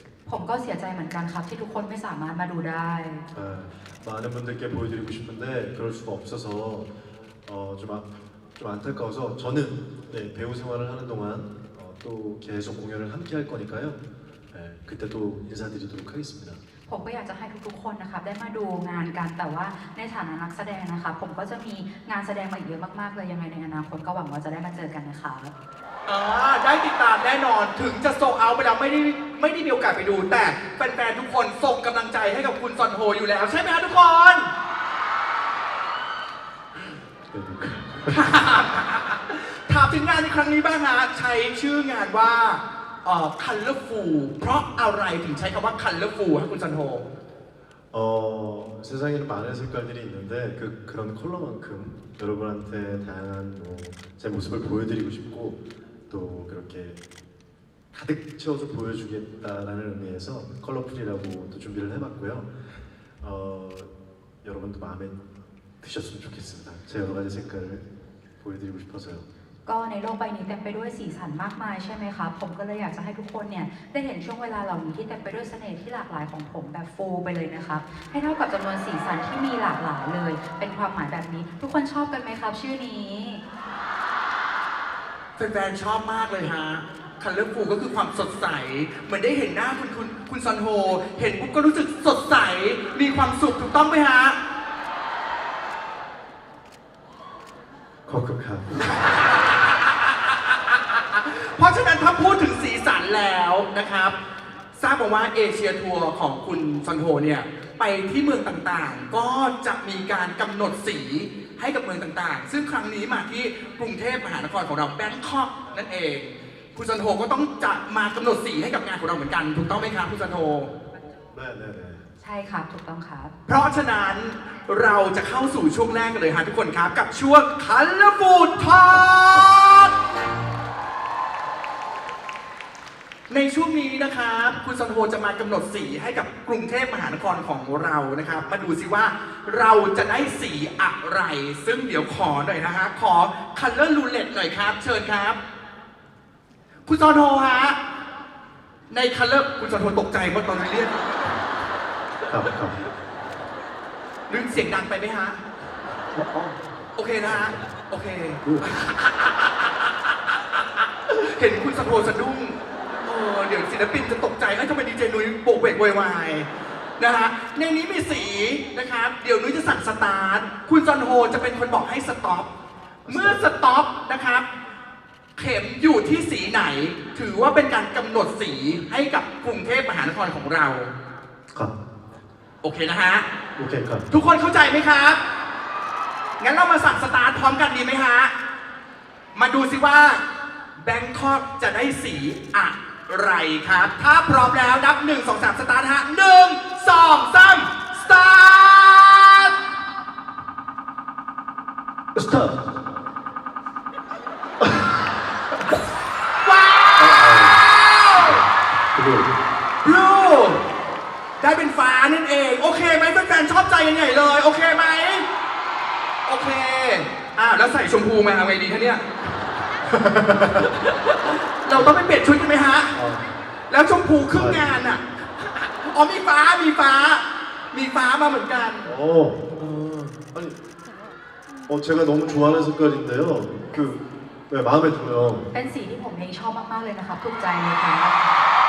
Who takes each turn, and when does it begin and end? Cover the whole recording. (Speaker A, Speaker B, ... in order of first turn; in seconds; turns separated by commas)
Speaker A: 0.3-3.3, Speaker B: 3.3-6.9, Speaker B: 7.5-16.6, Speaker A: 16.9-25.5, Speaker C: 26.1-34.5, Speaker B: 36.8-38.3, Speaker C: 38.1-47.0, Speaker B: 47.9-57.0, Speaker B: 57.9-62.5, Speaker B: 63.2-63.9, Speaker B: 64.4-65.3, Speaker B: 65.8-67.8, Speaker B: 68.4-69.3, Speaker A: 69.7-83.4, Speaker C: 85.4-94.4, Speaker B: 98.1-99.2, Speaker C: 101.1-104.2, Speaker C: 104.8-120.7, Speaker B: 121.3-122.1, Speaker A: 122.2-123.3, Speaker C: 123.5-129.9, Speaker C: 133.3-145.4, Speaker C: 146.9-147.8, Speaker C: 148.9-151.0, Speaker B: 152.3-152.8, Speaker C: 154.3-155.4, Speaker B: 156.1-156.7, Speaker C: 157.0-159.5, Speaker B: 157.2-157.7, Speaker B: 158.4-158.8, Speaker C: 161.1-172.5, Speaker B: 173.1-173.4, Speaker C: 173.1-174.5, Speaker C: 175.4-180.9, Speaker C: 182.6-183.3, Speaker B: 183.6-184.1, Speaker C: 184.1-185.2, Speaker C: 186.4-188.3, Speaker C: 189.4-190.2, Speaker C: 190.8-199.5, Speaker B: 202.1-202.6, Speaker B: 204.6-205.1, Speaker C: 206.4-208.4, Speaker B: 207.0-207.6, Speaker B: 208.2-209.3, Speaker C: 209.8-210.6, Speaker C: 211.4-215.3, Speaker C: 216.3-219.1, Speaker B: 219.9-220.7, Speaker C: 220.5-222.9, Speaker B: 222.9-223.3, Speaker C: 223.7-228.9, Speaker B: 224.3-224.7, Speaker B: 228.8-230.6, Speaker B: 231.7-235.5, Speaker A: 235.5-238.3